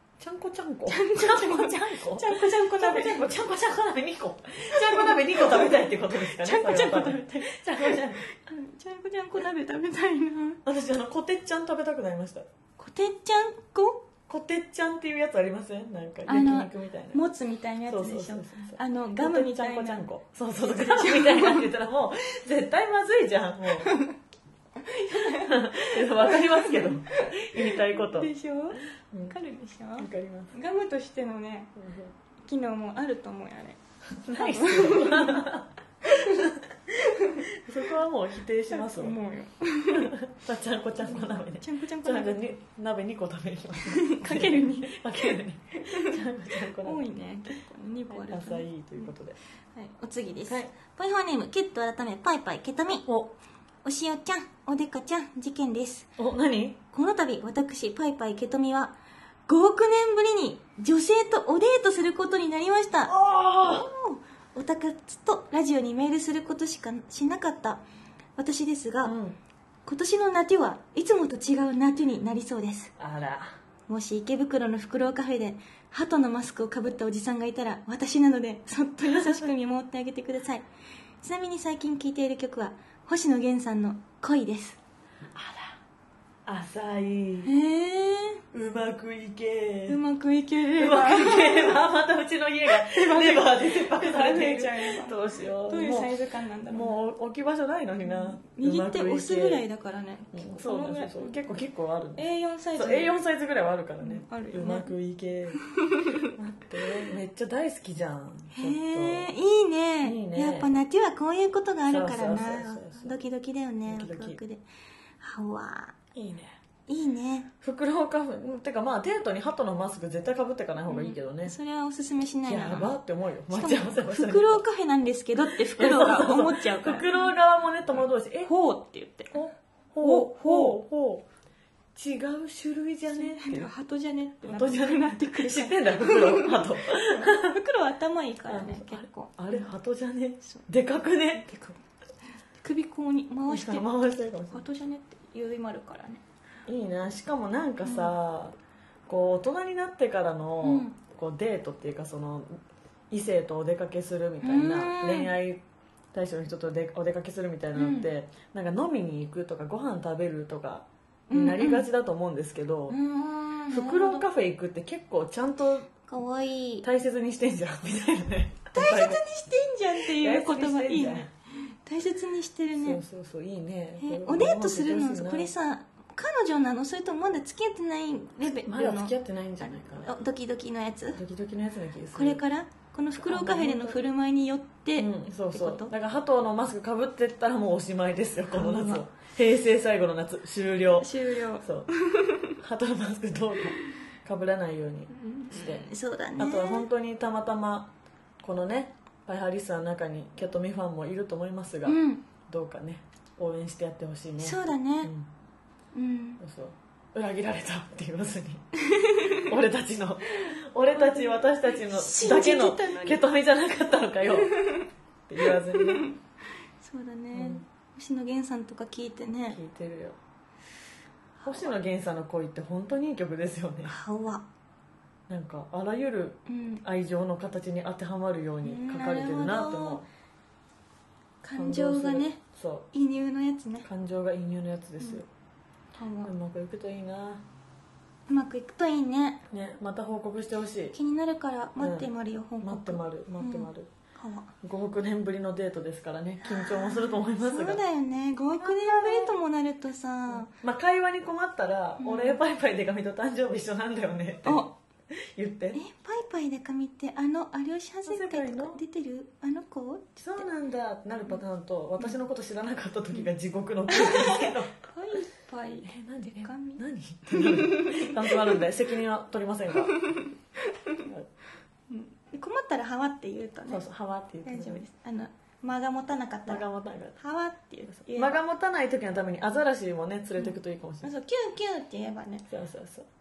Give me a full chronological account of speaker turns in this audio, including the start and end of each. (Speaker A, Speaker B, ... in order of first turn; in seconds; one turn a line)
Speaker A: 0.2-8.3
Speaker B: 0.9-3.3
Speaker B: 4.7-10.6
Speaker A: 10.6-12.5
Speaker B: 12.8-14.1
Speaker A: 14.3-17.2
Speaker B: 16.3-20.0
Speaker A: 17.9-23.9
Speaker B: 20.6-21.6
Speaker B: 23.8-24.1
Speaker B: 24.8-31.8
Speaker A: 25.3-28.3
Speaker A: 30.0-30.5
Speaker A: 31.8-32.1
Speaker B: 32.4-33.8
Speaker A: 34.1-36.8
Speaker B: 34.3-35.5
Speaker B: 36.0-37.5
Speaker A: 37.4-39.2
Speaker B: 38.7-40.1
Speaker A: 39.9-47.0
Speaker B: 41.0-42.4
Speaker B: 43.8-46.2
Speaker B: 46.8-49.1
Speaker A: 48.1-49.4
Speaker B: 49.7-53.1
Speaker A: 50.5-50.7
Speaker A: 53.1-53.3
Speaker B: 53.8-56.1
Speaker A: 56.2-56.8
Speaker B: 56.9-58.9
Speaker B: 59.5-67.8
Speaker A: 63.0-63.9
Speaker B: 68.4-69.2
Speaker A: 69.0-69.4
Speaker B: 69.8-72.9
Speaker A: 73.0-73.5
Speaker B: 73.9-80.6
Speaker A: 79.1-79.5
Speaker B: 81.2-84.8
Speaker A: 85.3-85.8
Speaker A: 86.5-87.5
Speaker B: 87.4-88.4
Speaker A: 88.5-90.0
Speaker B: 89.9-91.8
Speaker A: 90.8-96.1
Speaker B: 92.7-97.0
Speaker A: 96.7-99.6
Speaker B: 98.0-101.4
Speaker A: 100.3-102.2
Speaker B: 102.2-103.1
Speaker A: 102.8-105.6
Speaker B: 104.0-104.9
Speaker B: 105.5-106.3
Speaker A: 106.2-109.3
Speaker B: 108.5-114.6
Speaker A: 110.0-110.8
Speaker A: 111.9-113.2
Speaker A: 113.8-114.4
Speaker B: 115.2-116.0
Speaker A: 116.1-116.5
Speaker B: 116.9-117.5
Speaker A: 117.6-121.5
Speaker B: 120.9-122.9
Speaker A: 122.5-124.6
Speaker B: 123.5-127.3
Speaker A: 125.5-128.5
Speaker B: 128.4-129.4
Speaker A: 129.3-131.2
Speaker B: 130.0-130.8
Speaker A: 131.9-133.7
Speaker B: 133.1-139.7
Speaker A: 134.4-137.6
Speaker A: 138.5-141.7
Speaker B: 142.6-143.9
Speaker A: 143.5-144.6
Speaker B: 144.5-146.2
Speaker A: 146.7-148.6
Speaker B: 147.8-148.1
Speaker A: 149.1-152.6
Speaker B: 150.6-150.9
Speaker A: 153.1-163.0
Speaker B: 154.4-155.3
Speaker B: 157.8-158.1
Speaker B: 161.3-161.9
Speaker B: 162.9-164.2
Speaker A: 163.7-165.9
Speaker B: 166.1-166.8
Speaker A: 166.8-169.2
Speaker B: 168.7-173.0
Speaker A: 170.0-171.3
Speaker A: 172.7-175.5
Speaker B: 174.0-181.2
Speaker A: 178.6-180.2
Speaker A: 181.1-182.4
Speaker B: 182.1-185.9
Speaker A: 183.2-184.0
Speaker A: 185.0-191.9
Speaker B: 188.5-189.1
Speaker B: 190.9-192.6
Speaker A: 192.5-205.3
Speaker B: 195.1-196.8
Speaker B: 201.8-202.2
Speaker B: 204.4-205.1
Speaker B: 205.9-206.4
Speaker A: 206.4-208.7
Speaker B: 208.9-209.4
Speaker A: 209.3-214.6
Speaker B: 210.9-213.2
Speaker B: 214.4-214.9
Speaker A: 215.3-216.1
Speaker B: 215.4-216.2
Speaker B: 216.8-219.6
Speaker A: 217.3-217.6
Speaker A: 219.5-220.2
Speaker B: 221.4-221.7
Speaker A: 221.4-223.9
Speaker B: 223.9-224.4
Speaker A: 225.3-230.0
Speaker B: 226.5-226.8
Speaker B: 228.6-230.0
Speaker B: 231.4-232.4
Speaker A: 231.6-232.9
Speaker B: 232.9-233.9
Speaker A: 233.8-235.2
Speaker B: 235.9-236.3
Speaker A: 236.2-237.4
Speaker B: 238.3-239.4
Speaker A: 239.5-241.0
Speaker B: 240.9-244.5
Speaker A: 241.8-242.1
Speaker A: 242.6-243.9
Speaker A: 244.6-247.8
Speaker B: 246.4-250.5
Speaker A: 248.6-249.3
Speaker A: 250.3-255.8
Speaker B: 252.0-252.4
Speaker B: 254.4-254.7
Speaker B: 255.7-260.4
Speaker A: 258.1-258.8
Speaker A: 260.2-264.7
Speaker B: 263.9-268.6
Speaker A: 265.9-270.1
Speaker B: 269.9-271.1
Speaker A: 271.0-271.3
Speaker B: 271.9-273.8
Speaker A: 273.7-274.8
Speaker B: 274.4-276.6
Speaker A: 276.5-277.2
Speaker B: 277.1-278.4
Speaker A: 277.9-281.1
Speaker B: 281.0-282.5
Speaker A: 282.5-283.1